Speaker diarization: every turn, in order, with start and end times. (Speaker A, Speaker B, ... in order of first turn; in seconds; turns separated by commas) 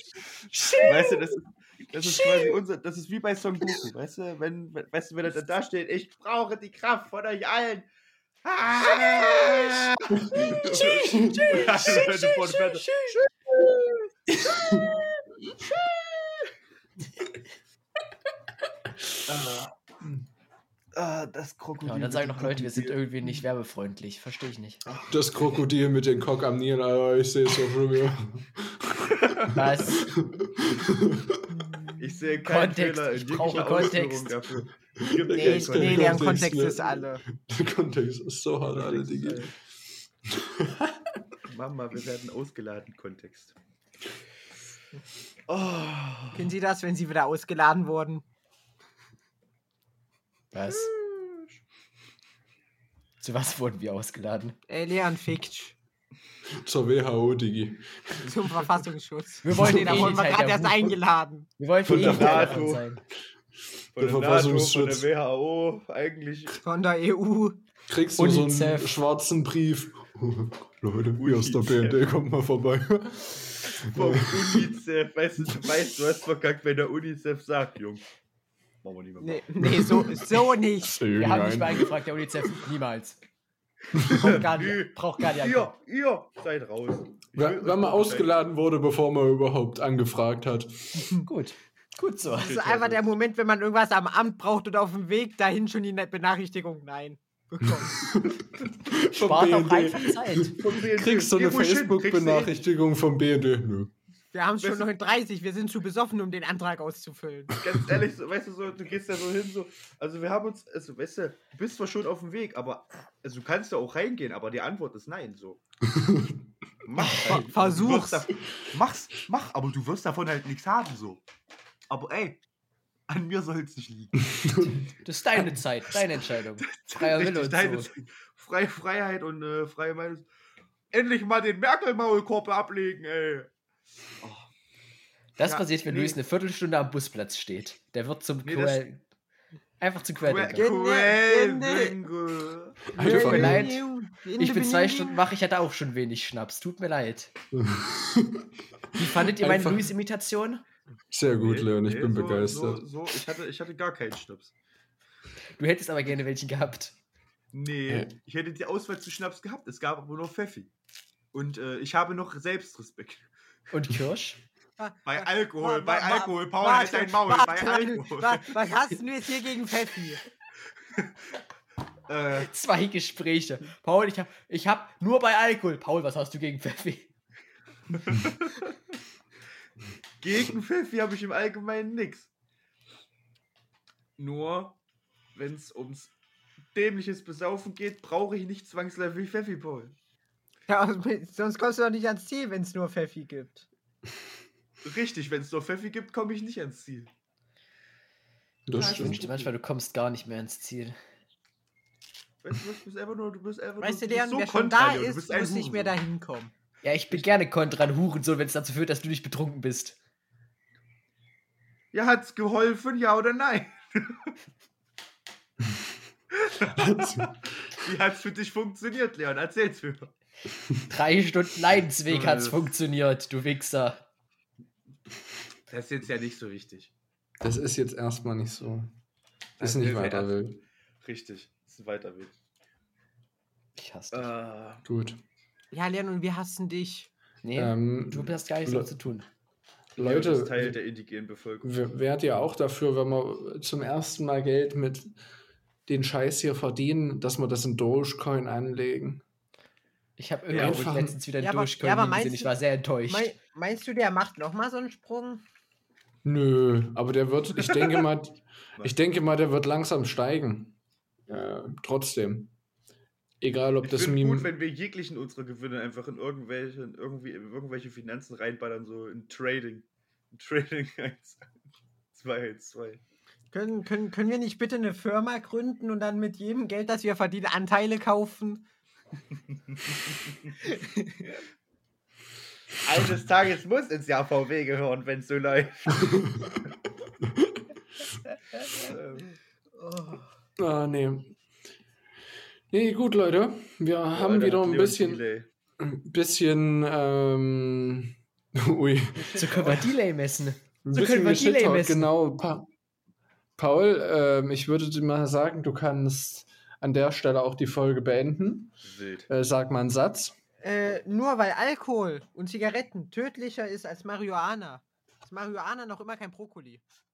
Speaker A: 0.6-0.9, Speaker B: 0.7-7.9, Speaker B: 8.4-12.9, Speaker C: 10.2-10.5, Speaker A: 10.3-13.2, Speaker C: 11.1-11.6, Speaker C: 14.5-14.9, Speaker B: 19.3-19.7, Speaker B: 20.9-23.4, Speaker A: 21.8-24.8, Speaker C: 25.1-31.5, Speaker A: 29.5-30.1, Speaker B: 32.0-36.2, Speaker A: 32.4-34.4, Speaker C: 35.0-39.5, Speaker D: 35.3-37.2, Speaker B: 38.7-39.5, Speaker C: 40.3-41.2, Speaker B: 41.5-43.6, Speaker B: 45.5-46.5, Speaker D: 46.3-48.2, Speaker A: 50.5-50.9, Speaker B: 50.7-51.5, Speaker A: 53.2-54.6, Speaker D: 54.7-55.8, Speaker C: 56.5-58.5, Speaker D: 58.2-61.5, Speaker A: 59.4-60.9, Speaker C: 59.5-60.1, Speaker A: 61.6-63.0, Speaker B: 61.9-62.9, Speaker C: 61.9-62.5, Speaker C: 64.0-65.0, Speaker B: 64.0-66.6, Speaker D: 66.6-67.6, Speaker C: 67.9-74.7, Speaker A: 68.2-68.9, Speaker B: 71.2-72.0, Speaker B: 73.9-78.0, Speaker B: 78.8-79.9, Speaker D: 79.2-81.0, Speaker C: 79.7-80.1, Speaker C: 80.9-81.9, Speaker A: 81.1-83.2, Speaker C: 84.0-84.4, Speaker B: 84.0-88.3, Speaker A: 84.1-85.7, Speaker C: 87.3-91.1, Speaker A: 91.3-93.0, Speaker D: 92.3-98.0, Speaker C: 98.0-103.9, Speaker A: 98.9-100.5, Speaker B: 100.6-102.5, Speaker D: 104.3-107.6, Speaker B: 104.6-104.9, Speaker B: 107.6-115.6, Speaker C: 115.9-116.4, Speaker B: 116.8-121.2, Speaker D: 117.1-118.2, Speaker B: 121.9-122.4, Speaker B: 123.1-124.2, Speaker C: 124.3-124.8, Speaker A: 124.9-127.9, Speaker B: 126.7-130.3, Speaker B: 130.9-133.5, Speaker B: 134.2-134.5, Speaker A: 135.4-139.0, Speaker B: 135.8-136.2, Speaker B: 138.5-138.8, Speaker A: 139.8-140.8, Speaker B: 140.2-142.9, Speaker D: 140.6-142.0, Speaker D: 142.9-145.2, Speaker C: 143.0-143.7, Speaker A: 143.0-143.8, Speaker A: 144.4-147.3, Speaker C: 147.5-148.5, Speaker A: 148.9-150.6, Speaker C: 149.0-149.9, Speaker C: 151.1-152.8, Speaker B: 151.4-154.5, Speaker A: 155.6-156.9, Speaker B: 157.5-160.7, Speaker C: 157.9-158.1, Speaker B: 161.3-163.2, Speaker A: 163.7-164.4, Speaker D: 164.8-170.2, Speaker B: 165.1-168.5, Speaker B: 172.1-172.5, Speaker A: 172.4-177.1, Speaker B: 177.9-178.7, Speaker B: 180.2-182.3, Speaker B: 184.2-184.8, Speaker B: 185.3-186.1, Speaker B: 186.7-189.9, Speaker D: 190.7-193.7, Speaker B: 194.8-197.1, Speaker C: 198.7-199.2, Speaker B: 198.8-199.5, Speaker A: 198.8-201.0, Speaker B: 202.4-205.9, Speaker D: 203.8-206.5, Speaker A: 206.8-210.0, Speaker B: 207.1-207.4, Speaker B: 211.9-214.3, Speaker B: 216.3-220.1, Speaker C: 216.8-217.3, Speaker A: 220.9-224.1, Speaker B: 221.8-222.6, Speaker B: 225.7-226.9, Speaker C: 227.4-228.9, Speaker B: 229.6-230.4, Speaker C: 229.6-230.6, Speaker B: 231.0-232.3, Speaker A: 233.8-234.3, Speaker B: 234.1-234.8, Speaker C: 234.8-235.2, Speaker D: 235.7-237.1, Speaker A: 237.4-239.3, Speaker C: 237.6-238.9, Speaker C: 240.0-240.8, Speaker B: 240.0-241.7, Speaker C: 241.6-245.1, Speaker C: 245.9-249.2, Speaker A: 250.2-253.3, Speaker B: 250.5-250.9, Speaker C: 250.6-251.2, Speaker D: 251.4-252.6, Speaker D: 253.1-255.4, Speaker C: 256.2-260.8, Speaker C: 261.3-262.5, Speaker C: 263.4-264.5, Speaker B: 263.8-271.5, Speaker B: 272.1-273.0, Speaker D: 273.5-278.6, Speaker B: 279.7-280.5, Speaker D: 280.6-281.3, Speaker B: 282.8-286.3, Speaker C: 286.1-286.5, Speaker B: 288.7-289.4, Speaker C: 290.6-291.4, Speaker C: 292.7-295.2, Speaker B: 294.1-295.5, Speaker C: 295.8-299.7, Speaker D: 299.2-299.8, Speaker A: 299.4-302.1, Speaker C: 300.8-302.7, Speaker C: 303.6-308.8, Speaker B: 308.8-309.3, Speaker C: 309.3-310.3, Speaker D: 310.6-316.8